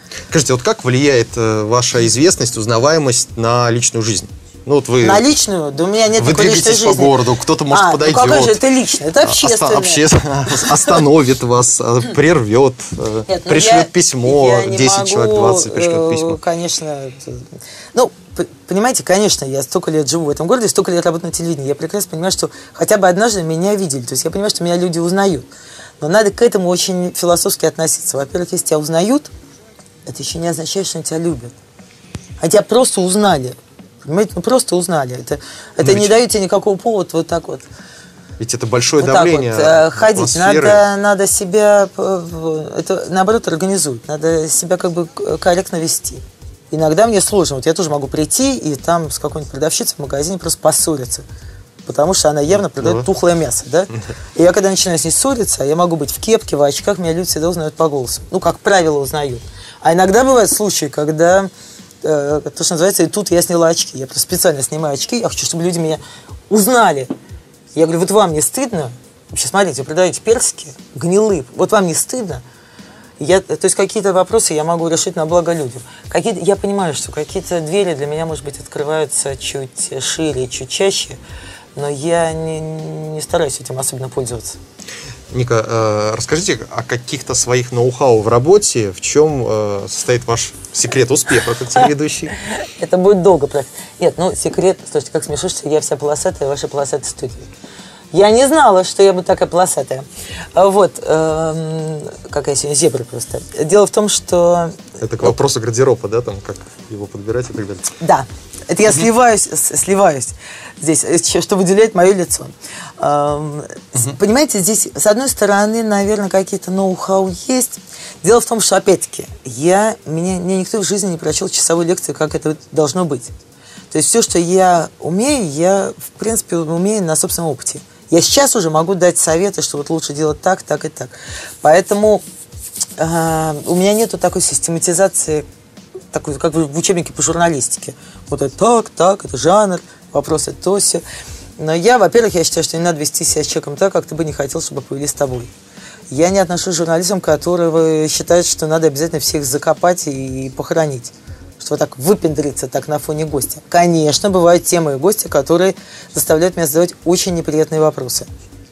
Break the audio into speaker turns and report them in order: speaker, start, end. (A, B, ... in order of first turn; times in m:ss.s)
0:00.3-0:05.2 A
0:05.0-0:11.0 B
0:06.2-0:08.6 A
0:09.2-0:16.4 A
0:13.3-0:25.5 B
0:26.0-0:29.3 B
0:30.1-0:31.6 B
0:32.4-0:37.7 B
0:35.8-0:36.1 A
0:38.4-0:40.8 A
0:39.0-0:51.2 B
0:51.9-1:01.5 B
0:52.8-0:53.1 A
1:02.0-1:07.1 B
1:07.8-1:12.4 B
1:13.2-1:21.2 B
1:21.8-1:24.6 B
1:25.3-1:32.4 A
1:32.5-1:37.5 B
1:38.1-1:45.4 B
1:45.0-1:47.9 A
1:48.0-2:03.3 B
2:03.9-2:12.2 B
2:13.0-2:15.4 B
2:16.1-2:21.0 B
2:21.6-2:25.5 B
2:26.1-2:38.3 B